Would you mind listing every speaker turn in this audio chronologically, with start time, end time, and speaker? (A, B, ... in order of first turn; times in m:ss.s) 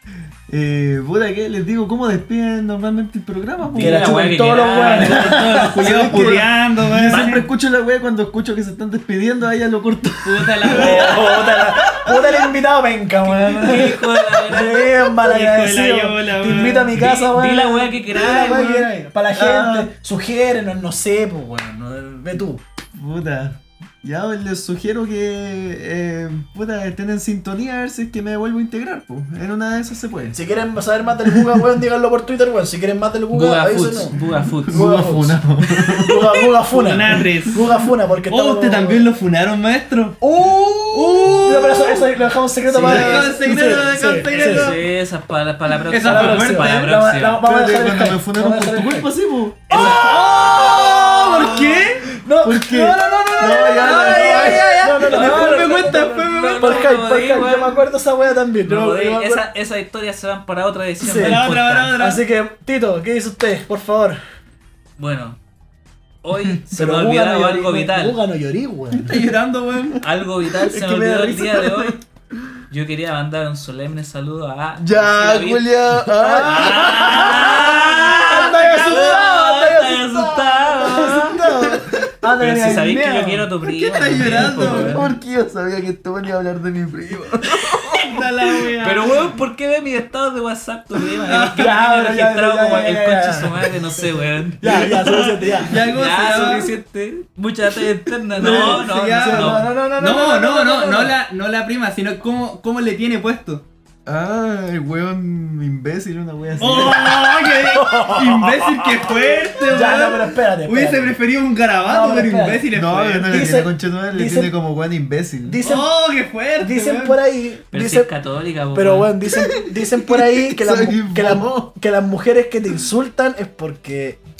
0:00.5-0:04.2 A
0:03.7-0:06.2 B
0:03.7-0:05.9 C
0:04.8-0:07.4 D
0:05.1-0:12.3 A
0:07.1-0:07.5 B
0:10.2-0:11.6 D
0:10.7-0:22.6 C
0:13.2-0:14.9 B
0:15.1-0:17.3 D
0:16.9-0:18.9 B
0:19.3-0:19.9 A
0:22.9-0:30.4 A
0:30.3-0:35.4 C
0:31.3-0:31.7 A
0:33.3-0:35.0 B
0:34.2-0:36.4 A
0:36.0-0:39.0 C
0:36.7-0:37.6 D
0:38.3-0:40.2 D
0:40.2-0:44.7 C
0:40.9-0:42.0 D
0:42.7-0:43.2 B
0:42.8-0:44.8 D
0:42.8-0:43.6 A
0:44.3-0:47.4 B
0:45.9-0:46.8 D
0:46.0-0:49.1 C
0:47.4-0:49.8 A
0:49.7-0:59.4 C
0:49.7-0:50.1 B
0:49.7-0:52.0 D
0:52.4-0:55.7 A
0:53.6-0:56.9 D
0:55.4-0:57.8 B
0:58.6-1:02.0 B
1:01.0-1:04.2 C
1:01.1-1:02.2 D
1:05.0-1:05.4 B
1:06.2-1:08.2 B
1:06.7-1:09.3 C
1:08.9-1:10.0 D
1:10.0-1:12.0 B
1:10.4-1:12.5 A
1:12.7-1:21.4 B
1:14.8-1:17.6 A
1:16.1-1:23.5 C
1:17.5-1:19.2 D
1:21.4-1:22.1 A
1:22.4-1:25.0 B
1:23.7-1:28.2 A
1:24.0-1:24.9 D
1:24.3-1:25.1 C
1:27.6-1:27.9 B
1:28.0-1:29.2 D
1:28.8-1:39.6 B
1:31.3-1:31.8 D
1:31.3-1:34.1 C
1:34.6-1:35.8 C
1:35.6-1:36.7 D
1:38.3-1:41.1 C
1:38.4-1:43.6 D
1:44.0-1:47.4 A
1:46.6-1:53.5 D
1:46.6-1:49.2 C
1:49.7-1:51.2 C
1:51.8-1:52.7 C
1:52.7-1:55.6 A
1:53.3-1:54.5 C
1:55.4-1:55.9 C
1:55.6-1:57.2 D
1:56.6-1:58.1 C
1:57.7-1:59.1 B
1:58.7-2:04.2 C
1:59.3-2:01.5 A